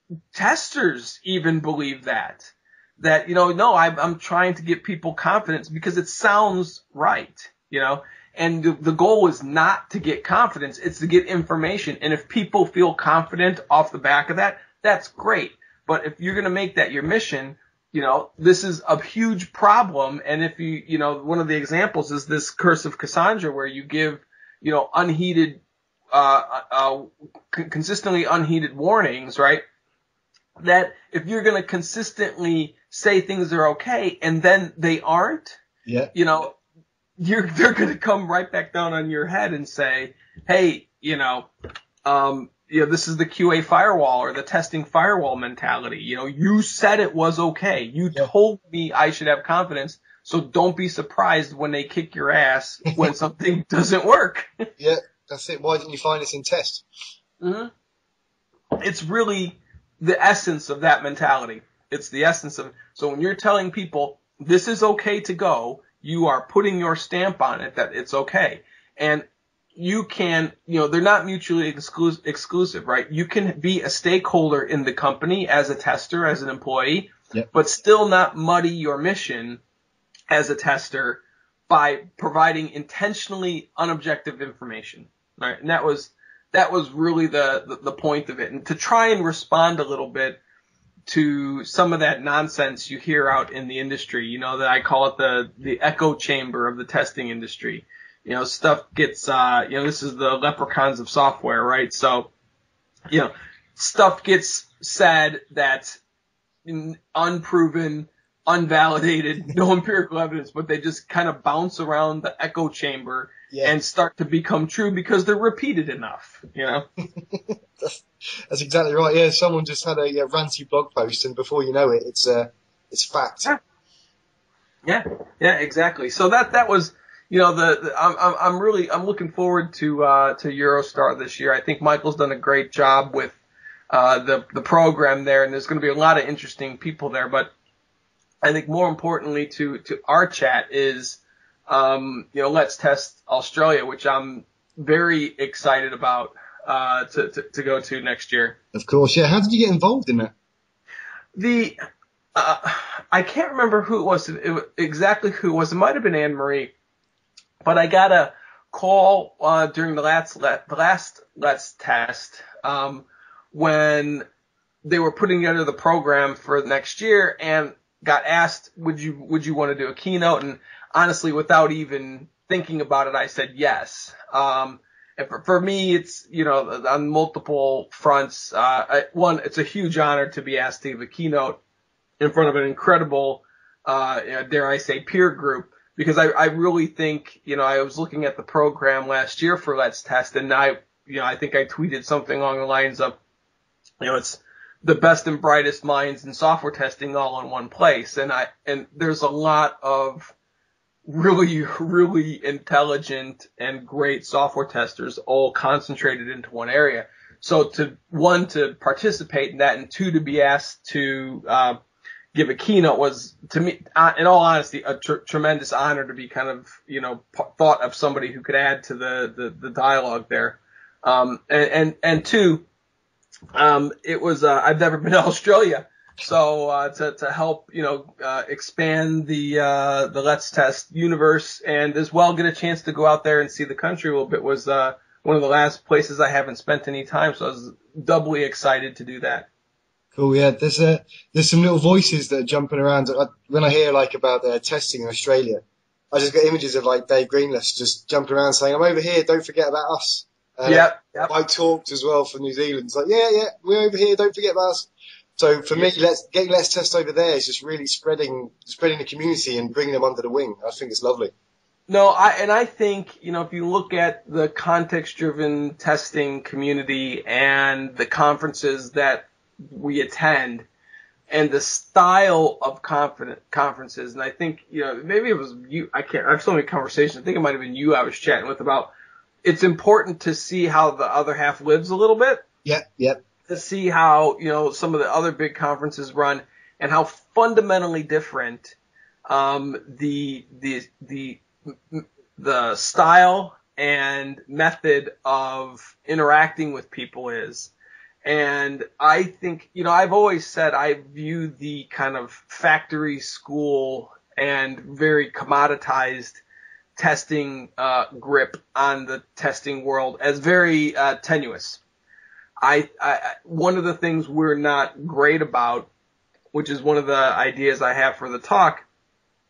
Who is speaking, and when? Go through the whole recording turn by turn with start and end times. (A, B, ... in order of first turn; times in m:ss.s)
0:00.3-0:25.6 A
0:26.1-0:29.6 A
0:30.6-0:35.6 A
0:35.9-0:36.1 B
0:36.1-0:36.6 A
0:37.2-0:41.5 A
0:42.0-0:54.6 A
0:54.8-0:56.8 B
0:57.4-0:57.7 A
0:58.8-1:19.6 A
1:20.3-1:30.4 A
1:31.1-1:42.3 A
1:43.1-1:46.0 A
1:46.6-1:56.8 A
1:57.2-2:03.5 B
2:04.8-2:13.4 A
2:13.9-2:17.5 A
2:18.4-2:28.6 A
2:28.7-2:30.3 B
2:31.4-2:31.8 A
2:32.4-2:36.7 A
2:37.6-2:44.2 A
2:44.8-3:01.6 A
3:02.2-3:13.2 A
3:14.0-3:20.3 A
3:21.1-3:31.8 A
3:32.3-3:42.6 A
3:43.5-3:59.5 A
4:00.2-4:21.3 B
4:10.6-4:11.3 A
4:15.7-4:16.0 A
4:21.9-4:30.6 A
4:31.3-4:38.9 A
4:39.4-4:42.4 A
4:42.6-4:43.2 B
4:43.5-4:48.8 A
4:49.3-4:57.7 A
4:58.2-5:06.4 A
5:07.0-5:11.8 A
5:12.6-5:15.9 A
5:16.5-5:18.8 A